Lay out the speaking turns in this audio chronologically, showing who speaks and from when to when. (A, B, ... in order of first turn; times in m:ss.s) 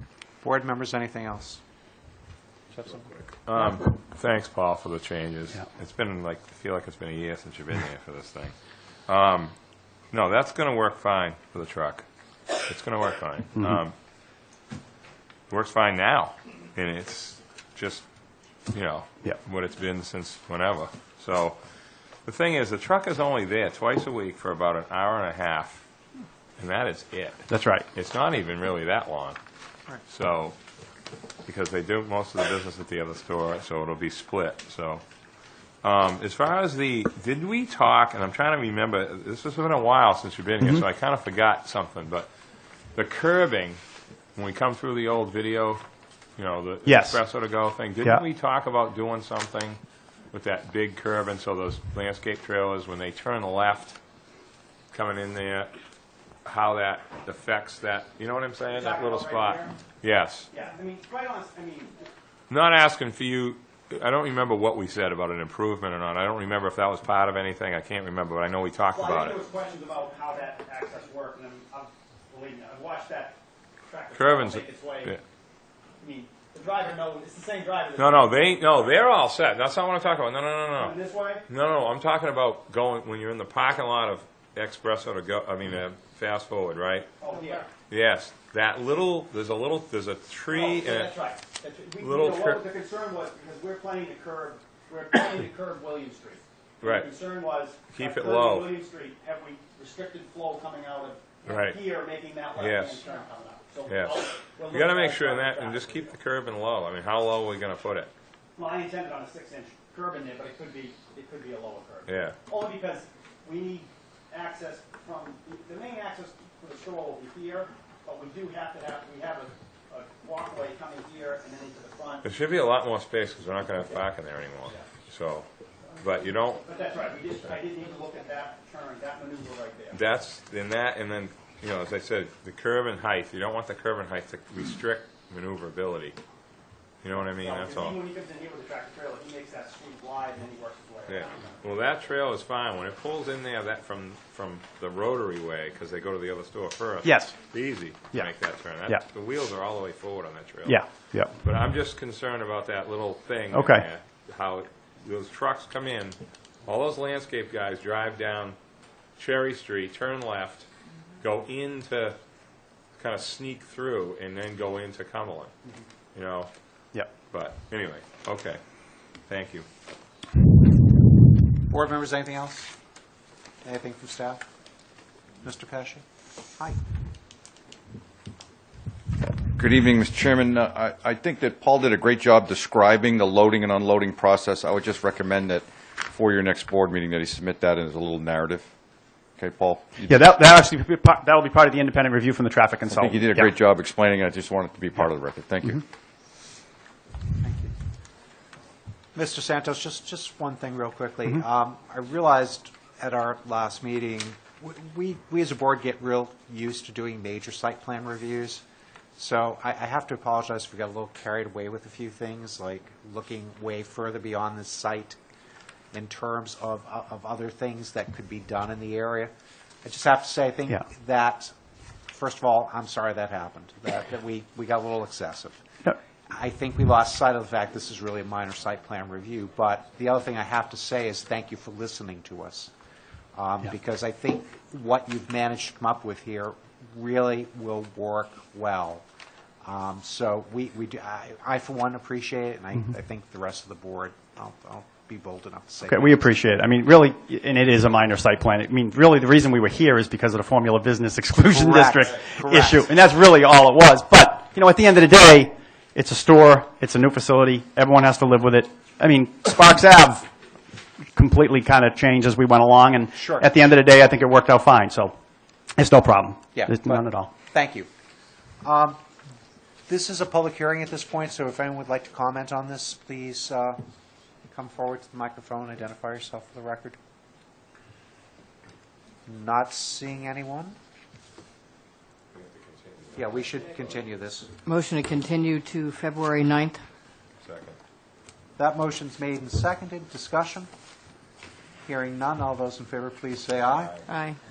0:00.4-0:01.6 A
0:02.7-0:03.2 A
0:03.4-0:08.5 B
0:09.1-0:09.5 B
0:10.1-0:12.0 B
0:12.7-0:13.9 B
0:15.5-0:18.0 B
0:18.7-0:21.6 B
0:22.2-0:25.8 B
0:26.6-0:29.4 B
0:27.5-0:27.8 C
0:30.1-0:30.5 B
0:31.4-0:35.0 B
0:35.8-0:42.3 B
0:42.9-0:43.8 B
0:44.4-0:45.8 B
0:46.4-0:49.8 B
0:46.8-0:47.2 C
0:50.3-0:54.0 B
0:54.9-0:55.7 B
0:56.4-1:00.5 B
0:58.7-0:59.7 D
1:00.5-1:02.1 D
1:02.5-1:09.4 B
1:08.9-1:15.2 D
1:14.1-1:15.2 B
1:16.0-1:19.0 D
1:18.0-1:27.1 B
1:20.8-1:21.4 D
1:27.2-1:27.7 D
1:27.9-1:31.1 B
1:30.5-1:46.1 D
1:32.0-1:32.6 B
1:36.8-1:37.1 B
1:37.9-1:38.8 B
1:41.4-1:41.8 B
1:42.6-1:43.0 B
1:43.9-1:48.1 B
1:48.6-2:02.2 D
1:52.0-1:52.4 B
2:02.2-2:05.5 B
2:06.0-2:06.7 B
2:06.1-2:10.0 D
2:09.9-2:16.2 B
2:17.0-2:18.0 B
2:17.2-2:21.6 D
2:21.1-2:38.6 B
2:27.0-2:27.4 C
2:28.1-2:29.0 C
2:30.6-2:31.4 C
2:33.5-2:33.8 C
2:39.2-2:40.7 B
2:41.2-2:42.2 B
2:43.0-2:45.5 B
2:46.1-2:46.5 B
2:47.1-2:48.6 B
2:49.2-2:49.6 B
2:51.7-2:52.7 A
2:53.6-2:54.4 A
2:55.4-2:56.0 A
2:59.5-3:08.7 E
3:09.4-3:10.2 E
3:10.0-3:13.5 C
3:12.9-3:15.9 E
3:17.4-3:17.7 A
3:19.1-3:28.6 A
3:29.2-3:35.2 A
3:35.9-3:39.3 A
3:39.8-3:41.5 A
3:42.1-3:45.6 A
3:46.3-3:52.7 A
3:53.3-3:59.0 A
3:59.6-4:06.3 A
4:05.9-4:20.3 C
4:11.4-4:12.9 A
4:21.1-4:25.1 C
4:23.1-4:23.5 A
4:25.8-4:27.3 C
4:26.5-4:27.9 A
4:28.6-4:29.0 A
4:29.9-4:33.8 A
4:34.5-4:37.0 A
4:39.2-4:40.8 A
4:42.3-4:44.0 B
4:43.1-4:44.5 A
4:44.6-4:46.8 F
4:47.4-4:47.8 B
4:48.6-4:50.7 A
4:51.8-4:54.0 A
4:53.7-4:54.1 B
4:54.1-4:54.4 F